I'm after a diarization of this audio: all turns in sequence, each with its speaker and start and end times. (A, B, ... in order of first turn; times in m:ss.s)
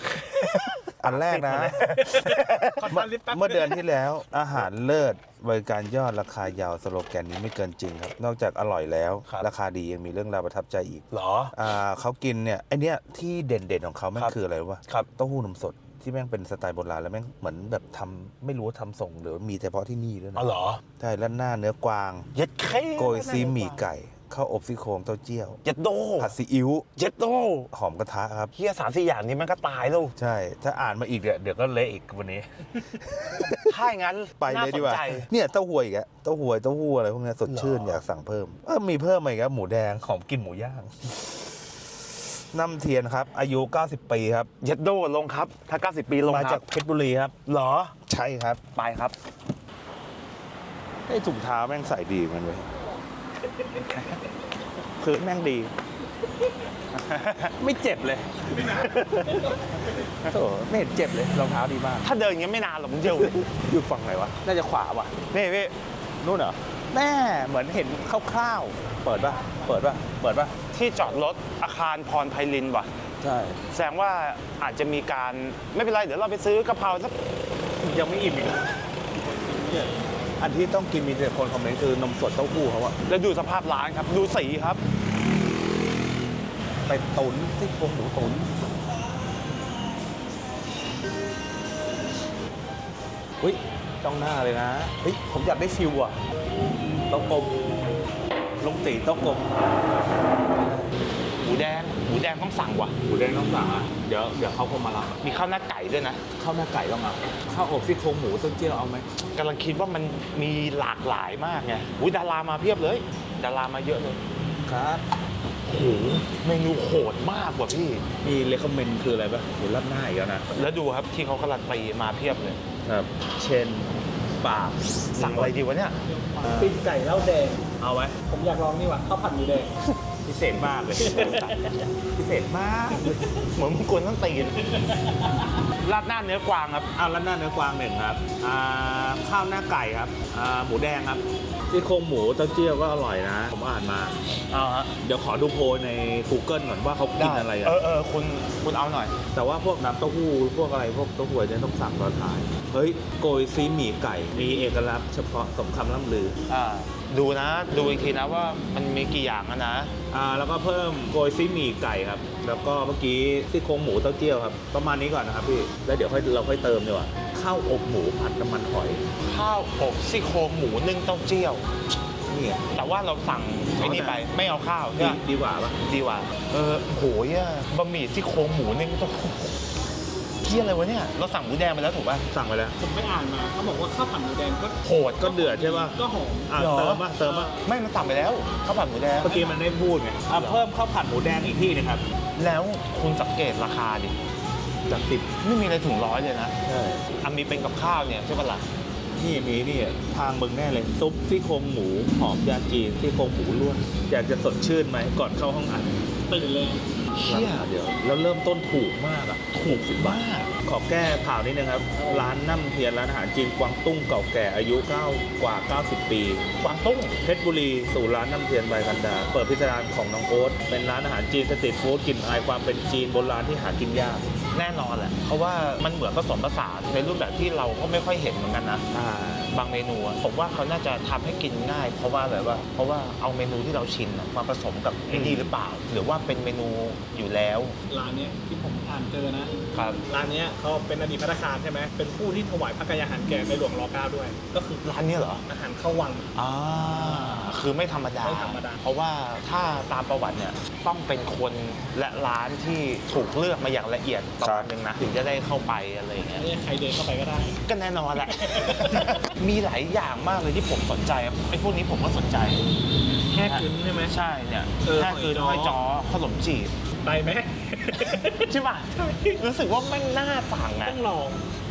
0:00.1-0:02.9 A
0:01.0-0:01.8 B
0:02.0-0:03.8 C
0:02.9-0:22.3 B
0:11.1-0:11.5 A
0:14.2-0:15.1 A
0:20.4-0:20.8 A
0:22.3-0:23.9 A
0:23.0-0:25.6 B
0:25.6-0:26.4 A
0:26.2-0:26.8 B
0:27.0-0:27.7 A
0:27.7-0:28.5 B
0:28.6-0:30.1 A
0:30.2-0:33.8 B
0:33.5-0:35.3 A
0:34.4-0:41.1 B
0:37.4-0:38.0 A
0:42.3-0:44.5 B
0:44.6-0:46.6 A
0:46.2-0:47.3 B
0:47.4-0:48.0 A
0:48.1-0:48.6 B
0:48.7-0:49.2 A
0:51.1-0:52.7 B
0:53.5-0:54.0 C
0:53.9-0:54.2 A
0:55.0-0:55.7 B
0:56.9-0:57.6 A
0:57.6-0:59.5 B
0:58.5-1:00.1 C
1:00.3-1:02.0 B
1:02.0-1:03.4 A
1:03.0-1:05.2 B
1:05.3-1:05.7 A
1:06.2-1:10.5 B
1:10.7-1:12.9 A
1:13.2-1:13.6 B
1:13.7-1:17.1 A
1:17.8-1:19.0 B
1:19.3-1:19.9 C
1:19.6-1:19.9 B
1:20.4-1:23.0 B
1:23.1-1:24.8 A
1:26.8-1:28.5 B
1:33.4-1:35.3 B
1:35.3-1:36.2 A
1:37.1-1:37.8 B
1:38.6-1:39.5 B
1:40.5-1:40.9 B
1:41.4-1:43.0 A
1:43.1-1:45.2 B
1:45.2-1:46.2 A
1:46.4-1:49.1 B
1:49.3-1:54.2 A
1:54.6-1:55.0 B
1:55.6-1:58.0 A
1:58.2-2:00.5 B
2:00.5-2:02.6 A
2:02.8-2:05.5 B
2:05.2-2:06.0 A
2:06.1-2:07.7 C
2:06.4-2:06.8 B
2:07.8-2:08.1 B
2:08.3-2:09.7 C
2:10.2-2:11.6 B
2:11.0-2:11.8 C
2:12.1-2:13.2 B
2:13.5-2:14.6 A
2:14.8-2:15.3 C
2:15.8-2:16.9 A
2:16.9-2:24.2 B
2:24.5-2:24.9 A
2:25.0-2:27.8 B
2:27.2-2:29.2 A
2:29.3-2:36.4 B
2:36.5-2:39.9 A
2:40.1-2:49.0 B
2:49.2-2:51.7 A
2:52.3-2:52.6 B
2:52.7-2:55.2 A
2:53.8-2:54.3 B
2:54.9-2:55.8 B
2:55.8-2:59.6 A
3:00.4-3:02.3 A
3:02.3-3:02.8 B
3:02.8-3:06.5 C
3:04.8-3:05.6 A
3:05.2-3:06.0 B
3:06.5-3:07.5 B
3:06.6-3:09.4 A
3:07.2-3:07.6 C
3:09.2-3:12.0 B
3:09.2-3:09.6 C
3:10.3-3:10.6 A
3:12.4-3:14.2 A
3:14.9-3:15.3 B
3:15.4-3:16.5 A
3:16.6-3:17.0 B
3:17.2-3:18.7 A
3:19.2-3:26.0 B
3:26.3-3:26.8 C
3:27.2-3:27.9 A
3:27.2-3:36.4 B
3:30.0-3:30.5 A
3:32.0-3:32.3 C
3:36.6-3:37.2 A
3:37.2-3:44.2 B
3:44.5-3:48.8 A
3:48.9-3:49.5 B
3:49.5-3:57.8 A
3:55.1-3:55.5 B
3:57.9-3:59.5 C
3:59.7-4:00.0 A
4:00.1-4:04.4 C
4:04.5-4:05.4 A
4:05.5-4:06.3 C
4:06.3-4:16.4 A
4:07.0-4:07.5 C
4:08.2-4:08.8 C
4:14.4-4:14.7 B
4:16.4-4:17.6 C
4:17.6-4:22.7 A
4:18.2-4:19.3 C
4:23.3-4:24.1 C
4:23.4-4:26.7 A
4:24.8-4:25.8 C
4:27.0-4:29.4 C
4:28.0-4:31.0 A
4:30.8-4:31.4 C